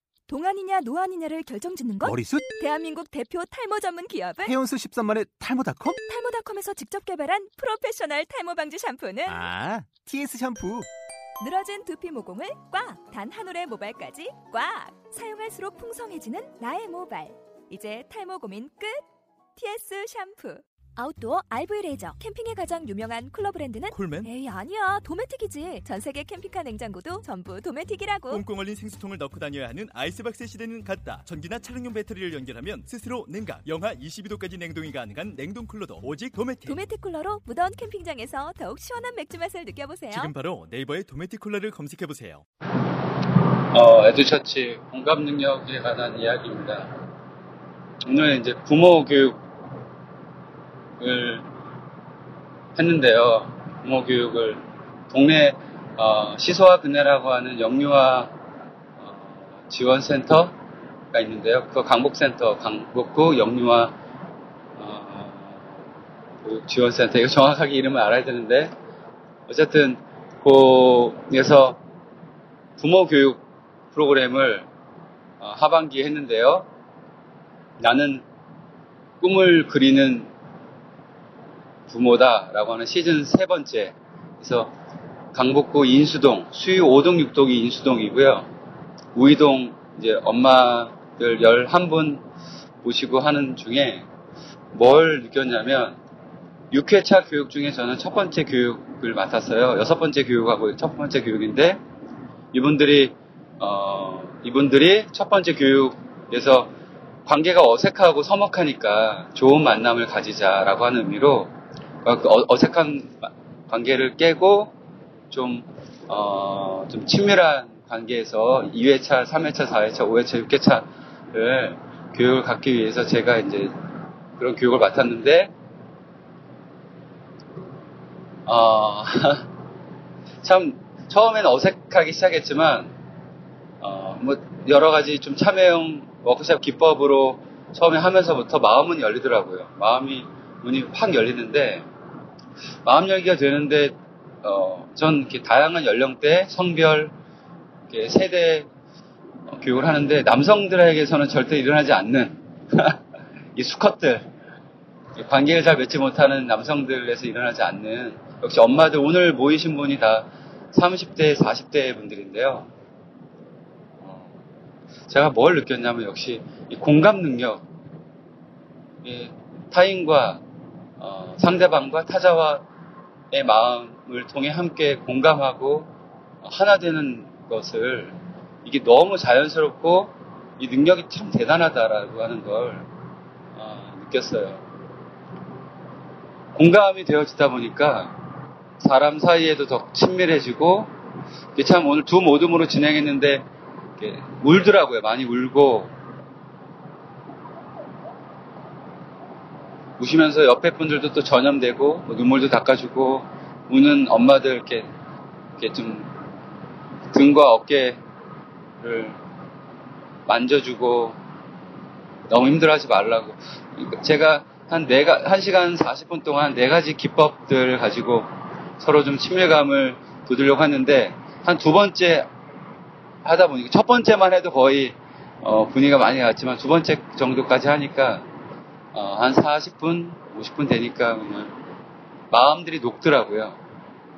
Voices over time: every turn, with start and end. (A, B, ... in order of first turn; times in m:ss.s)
0:00.3-0:04.6 A
0:02.0-0:02.4 B
0:04.4-0:06.0 B
0:05.9-0:09.4 A
0:09.3-0:10.9 B
0:11.4-0:19.0 A
0:19.6-0:28.4 A
0:23.9-0:24.3 C
0:28.3-0:36.8 C
0:36.7-0:40.3 A
0:40.1-0:42.4 C
0:43.7-0:47.0 D
0:48.1-0:49.4 D
0:51.0-0:51.5 D
0:52.8-0:58.3 D
0:59.0-1:00.5 D
1:01.1-1:04.0 D
1:04.8-1:05.8 D
1:06.4-1:08.7 D
1:09.5-1:11.8 D
1:12.8-1:14.7 D
1:15.4-1:16.7 D
1:17.8-1:18.2 D
1:19.2-1:20.3 D
1:21.9-1:24.7 D
1:25.3-1:28.5 D
1:29.2-1:32.2 D
1:32.8-1:34.1 D
1:34.7-1:36.0 D
1:36.7-1:41.8 D
1:42.5-1:46.7 D
1:47.3-1:51.5 D
1:52.0-1:54.8 D
1:55.3-2:03.7 D
2:04.4-2:05.5 D
2:08.5-2:09.5 D
2:10.4-2:12.9 D
2:13.8-2:21.9 D
2:22.8-2:27.1 D
2:27.9-2:28.7 D
2:29.5-2:33.0 D
2:33.6-2:34.3 D
2:35.2-2:42.7 D
2:44.0-2:44.4 D
2:45.1-2:47.7 D
2:49.0-2:50.4 D
2:51.0-2:52.7 D
2:53.3-2:55.9 D
2:56.4-3:02.9 D
3:03.6-3:04.6 D
3:06.6-3:08.2 D
3:08.8-3:10.9 D
3:11.6-3:13.5 D
3:14.0-3:15.9 D
3:20.0-3:24.9 D
3:25.6-3:26.2 D
3:27.1-3:28.0 D
3:28.8-3:29.2 D
3:30.3-3:31.2 D
3:32.3-3:42.3 D
3:43.2-3:48.3 D
3:48.9-3:51.6 D
3:52.3-3:53.6 D